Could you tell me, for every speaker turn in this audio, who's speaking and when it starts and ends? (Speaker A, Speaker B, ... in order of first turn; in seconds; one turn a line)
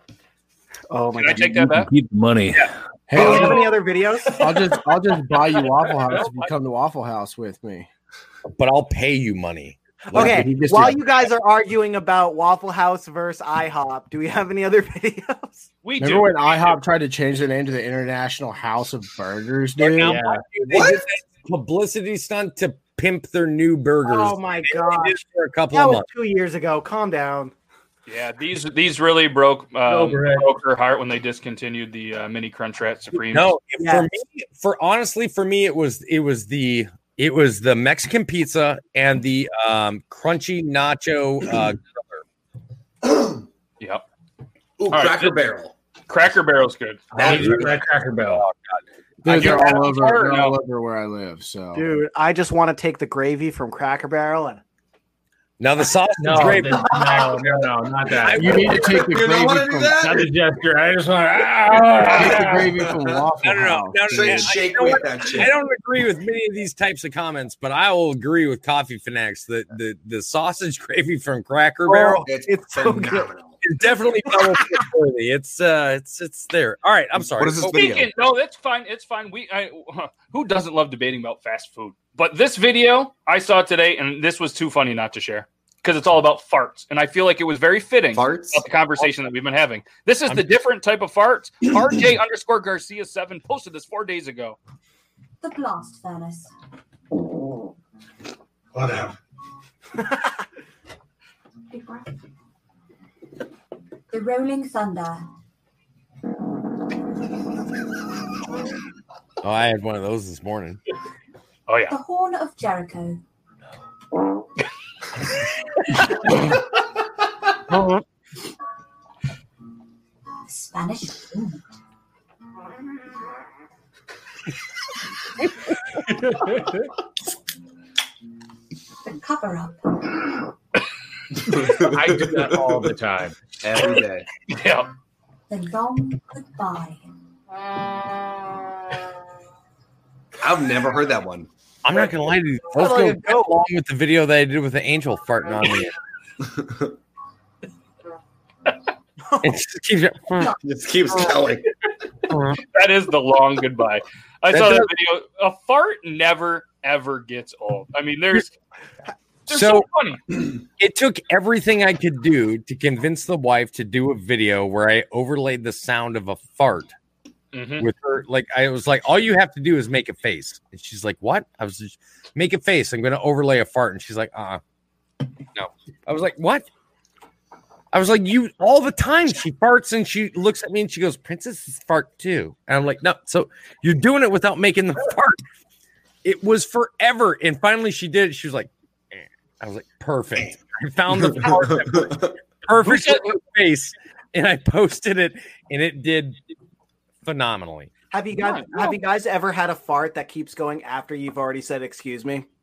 Speaker A: 0.9-1.6
Speaker B: 1.2-1.9
Speaker C: 1.5-2.7
Speaker D: 3.1-3.7
Speaker A: 3.1-4.4
Speaker B: 3.2-3.5
Speaker D: 4.4-7.9
Speaker B: 5.9-6.5
Speaker E: 8.5-10.9
Speaker A: 10.1-15.7
Speaker D: 10.1-11.0
Speaker B: 15.8-16.8
Speaker D: 16.0-20.2
Speaker E: 19.8-26.1
Speaker C: 20.0-20.5
Speaker F: 20.7-21.0
Speaker A: 24.1-25.2
Speaker A: 25.7-27.5
Speaker B: 28.1-33.5
Speaker C: 29.9-30.5
Speaker E: 33.1-42.2
Speaker A: 33.8-34.1
Speaker F: 43.0-43.5
Speaker F: 44.8-45.7
Speaker B: 44.9-45.4
Speaker B: 46.1-47.4
Speaker C: 47.1-48.5
Speaker F: 47.2-47.8
Speaker E: 47.2-47.7
Speaker E: 48.3-48.8
Speaker D: 49.2-51.8
Speaker B: 49.3-50.6
Speaker A: 51.8-54.6
Speaker E: 55.6-57.0
Speaker C: 56.2-59.0
Speaker F: 56.8-57.6
Speaker E: 58.2-58.8
Speaker D: 58.3-60.1
Speaker F: 58.8-60.3
Speaker C: 60.0-62.7
Speaker D: 62.1-64.6
Speaker F: 62.8-63.2
Speaker E: 63.4-72.3
Speaker F: 64.1-65.5
Speaker A: 71.9-73.3
Speaker F: 72.3-73.6
Speaker E: 73.6-77.8
Speaker F: 77.3-78.1
Speaker B: 77.7-94.6
Speaker F: 88.1-88.7
Speaker G: 95.4-96.5
Speaker F: 98.8-99.1
Speaker G: 104.1-105.2
Speaker E: 109.4-110.8
Speaker B: 111.7-112.0
Speaker G: 111.9-113.2
Speaker G: 120.5-121.5
Speaker C: 126.4-126.7
Speaker G: 129.1-129.7
Speaker F: 131.4-132.9
Speaker C: 131.8-133.4
Speaker F: 133.6-134.3
Speaker B: 134.5-134.9
Speaker G: 135.5-137.0
Speaker F: 140.4-141.5
Speaker E: 141.8-145.9
Speaker A: 142.7-143.6
Speaker F: 146.4-146.9
Speaker E: 149.4-150.6
Speaker F: 150.6-151.7
Speaker E: 152.3-152.6
Speaker B: 152.7-158.5
Speaker E: 154.5-154.9
Speaker B: 159.5-160.2
Speaker E: 159.5-159.9
Speaker E: 160.8-166.9
Speaker B: 167.5-167.9
Speaker E: 167.8-174.6
Speaker E: 175.6-176.7
Speaker E: 177.9-185.4
Speaker E: 186.2-196.4
Speaker F: 191.2-192.3
Speaker B: 192.8-193.3
Speaker E: 197.2-197.9
Speaker A: 198.1-202.5
Speaker B: 198.4-199.0